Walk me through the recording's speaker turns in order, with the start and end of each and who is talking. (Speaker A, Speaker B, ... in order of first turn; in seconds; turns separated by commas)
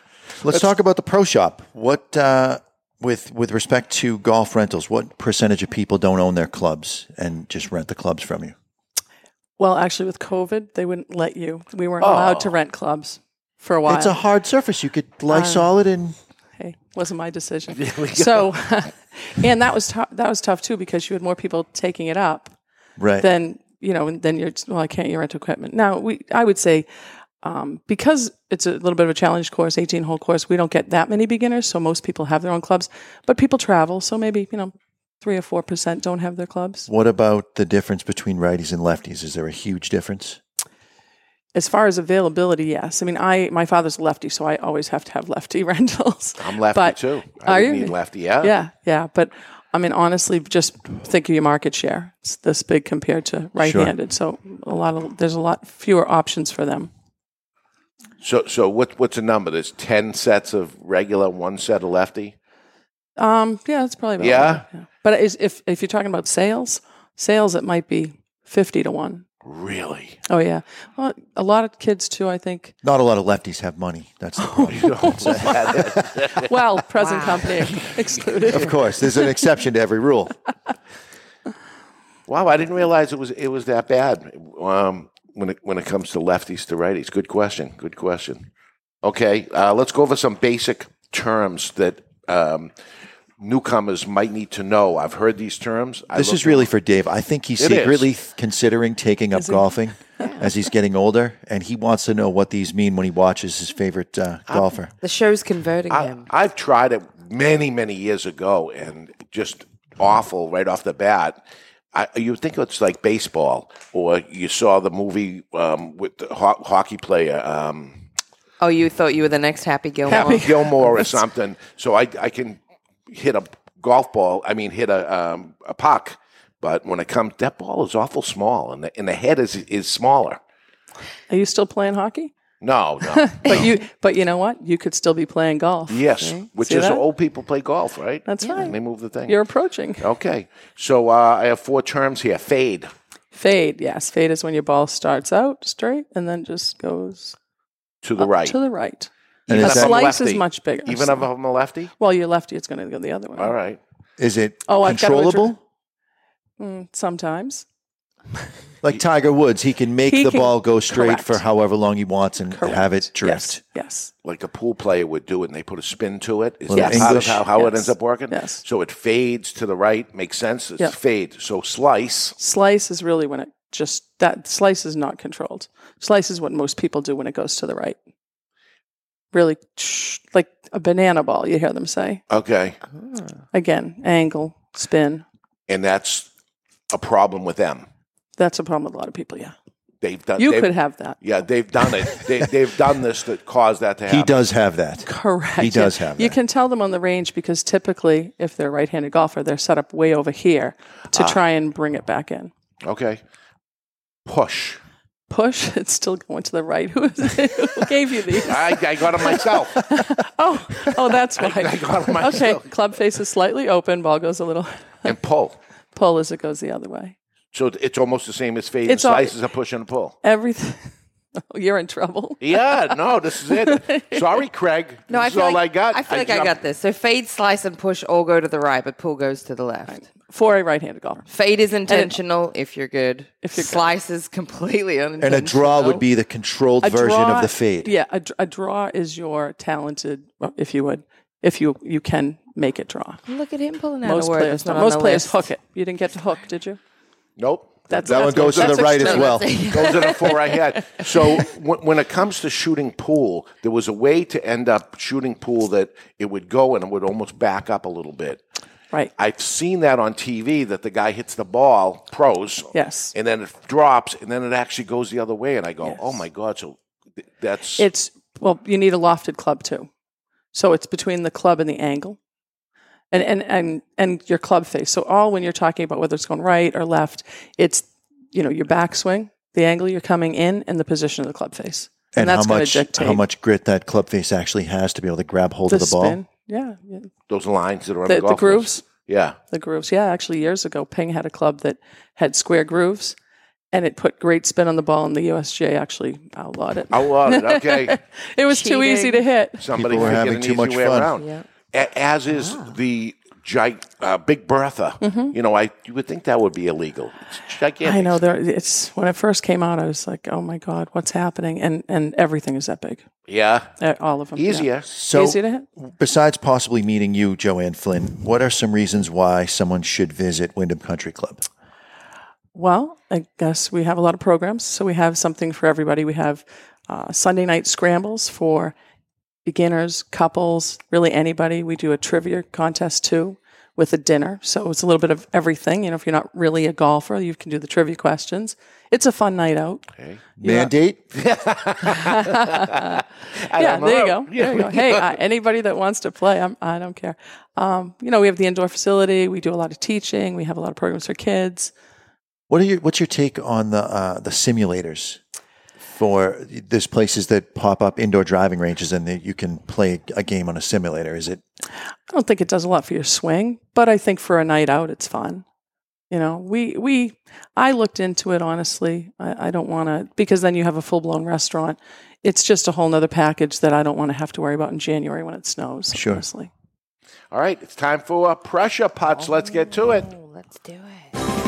Speaker A: 0.4-8.6, Speaker B: 9.6-14.2, Speaker C: 12.0-12.6, Speaker A: 13.9-16.2, Speaker B: 15.3-15.7, Speaker B: 16.6-22.5, Speaker C: 17.8-18.5, Speaker A: 23.0-23.3, Speaker B: 23.2-26.9, Speaker B: 27.4-36.9, Speaker A: 36.9-40.4, Speaker B: 41.5-56.9, Speaker C: 46.4-48.5, Speaker A: 53.6-53.9, Speaker C: 58.2-62.3, Speaker B: 63.2-69.3, Speaker C: 64.2-64.7, Speaker C: 69.4-70.2, Speaker B: 70.3-72.8, Speaker A: 72.8-75.9, Speaker B: 74.4-75.5, Speaker C: 74.7-76.5, Speaker B: 76.3-79.3, Speaker D: 77.0-77.5, Speaker A: 78.5-80.4, Speaker C: 82.3-88.5, Speaker C: 89.0-92.7, Speaker C: 93.4-96.7, Speaker A: 96.1-104.9, Speaker C: 97.6-98.1, Speaker B: 99.3-99.7, Speaker C: 104.5-104.8, Speaker D: 105.0-106.3, Speaker C: 105.9-111.4, Speaker C: 111.9-118.0, Speaker D: 118.6-120.5, Speaker B: 120.1-121.2, Speaker C: 120.1-130.4, Speaker B: 131.3-132.3, Speaker C: 132.6-133.7, Speaker B: 133.2-137.0, Speaker C: 135.9-139.4, Speaker B: 138.3-140.1, Speaker C: 140.0-142.9, Speaker B: 143.3-147.4, Speaker C: 148.0-148.6, Speaker B: 148.2-151.3, Speaker A: 149.5-150.0, Speaker C: 149.5-151.9, Speaker B: 152.0-153.6, Speaker C: 153.4-153.8, Speaker A: 154.2-155.6, Speaker B: 154.7-155.5, Speaker B: 156.6-157.7, Speaker A: 158.8-163.6, Speaker B: 160.1-161.4, Speaker B: 162.5-164.1, Speaker C: 164.2-172.4, Speaker A: 166.7-167.4, Speaker B: 166.7-168.6, Speaker B: 172.4-178.0, Speaker B: 179.3-182.2, Speaker C: 182.3-182.8, Speaker B: 183.5-185.2, Speaker C: 185.7-186.3, Speaker C: 186.9-187.9, Speaker B: 188.4-189.6, Speaker C: 190.0-194.4, Speaker B: 190.4-191.2, Speaker A: 194.1-196.4, Speaker B: 195.0-202.5, Speaker C: 202.8-203.2, Speaker C: 204.3-204.8, Speaker B: 205.3-215.1, Speaker C: 208.3-209.9, Speaker C: 210.9-212.7, Speaker C: 215.0-215.6, Speaker B: 215.9-217.2, Speaker C: 217.5-220.2, Speaker B: 218.9-219.3, Speaker B: 220.2-220.9, Speaker B: 221.5-223.0, Speaker C: 222.4-226.6, Speaker B: 223.5-224.3, Speaker D: 225.1-230.0, Speaker B: 229.9-231.3, Speaker D: 231.3-236.0, Speaker B: 231.9-232.2, Speaker B: 233.4-233.9, Speaker A: 235.2-237.9, Speaker B: 236.8-243.2, Speaker D: 243.3-245.5, Speaker B: 244.0-246.8, Speaker C: 247.4-258.4, Speaker B: 247.9-248.5, Speaker A: 248.0-249.7, Speaker D: 248.4-251.5, Speaker C: 259.2-266.8, Speaker B: 262.7-263.1, Speaker B: 265.8-266.1, Speaker C: 267.4-267.9, Speaker B: 267.8-269.9, Speaker B: 270.5-272.2, Speaker B: 273.1-283.2, Speaker A: 282.1-286.2, Speaker B: 285.7-287.1, Speaker C: 287.3-289.4, Speaker B: 288.1-288.9, Speaker B: 289.5-293.2, Speaker B: 293.7-299.7, Speaker C: 296.9-298.0, Speaker D: 298.5-299.3, Speaker C: 299.6-308.2, Speaker A: 299.7-301.1, Speaker D: 301.2-301.4, Speaker D: 302.4-302.7, Speaker B: 305.0-305.3, Speaker B: 307.8-313.0, Speaker C: 313.3-313.7, Speaker B: 313.8-315.7, Speaker C: 314.4-314.9, Speaker A: 314.9-321.4, Speaker B: 322.5-328.8, Speaker B: 329.4-339.8, Speaker A: 340.4-341.0, Speaker B: 340.4-340.7, Speaker C: 341.1-345.2, Speaker B: 341.9-351.7, Speaker A: 352.5-355.2, Speaker A: 355.9-361.4, Speaker B: 362.1-365.4, Speaker B: 366.1-376.5, Speaker A: 375.9-376.2, Speaker C: 377.3-380.1, Speaker D: 379.1-381.2